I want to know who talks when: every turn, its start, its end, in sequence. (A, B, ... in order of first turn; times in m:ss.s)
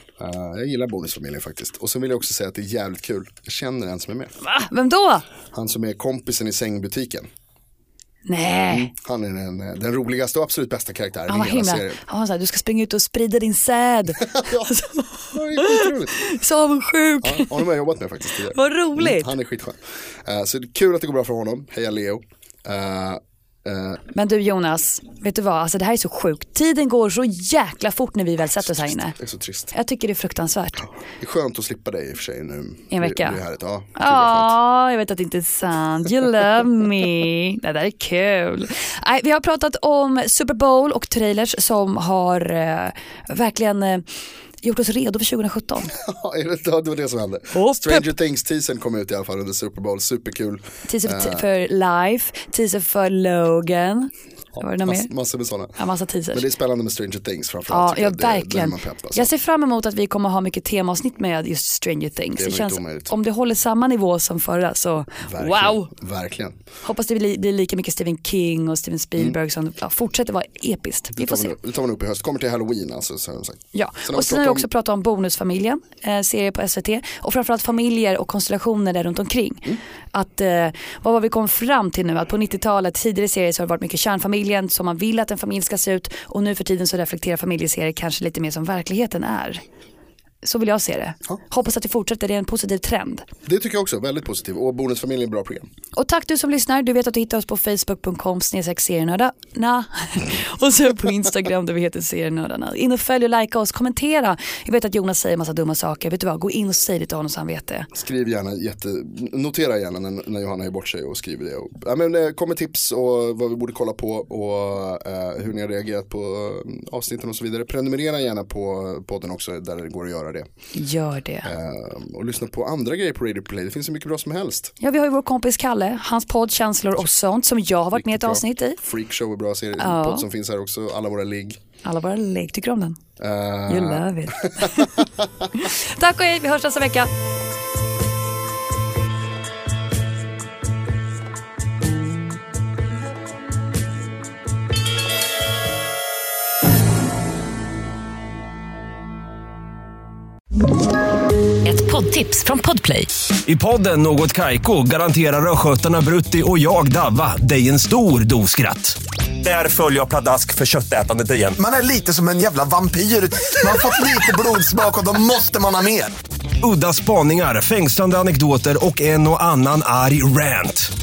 0:00.2-0:04.3 A
0:04.4-0:05.2 B
0:05.5-0:07.3 A
0:08.3-0:08.9 B
0:08.7-0:12.0 A
0:11.3-0:17.7 B
0:14.2-0:14.7 A
0:15.3-0:16.1 A
0:17.2-0:24.0 A
0:18.5-0:19.3 B
0:24.1-0:29.2 B
0:28.6-0:29.7 A
0:29.7-0:30.8 B
0:30.8-0:34.6 A
0:32.9-0:33.4 B
0:34.0-0:44.0 B
0:44.6-0:45.9 B
0:45.9-0:51.5 A
0:47.5-0:48.1 B
0:50.9-0:55.1 B
0:54.6-0:55.8 A
0:55.8-0:56.4 B
0:56.3-0:59.3 A
0:57.7-1:05.9 B
1:02.4-1:03.1 A
1:05.3-1:06.6 A
1:06.8-1:11.5 B
1:11.1-1:14.7 A
1:13.7-1:29.6 B
1:30.4-1:33.3 B
1:33.4-1:35.7 A
1:36.0-1:47.9 B
1:48.0-2:00.5 A
2:00.7-2:01.5 B
2:01.4-2:04.8 A
2:04.8-2:08.8 B
2:07.9-2:11.6 A
2:09.8-2:10.2 B
2:11.8-2:13.0 B
2:13.2-2:15.2 A
2:13.7-2:17.1 B
2:31.6-2:33.1 B
2:33.4-2:41.6 C
2:41.6-2:46.1 D
2:46.6-2:50.9 C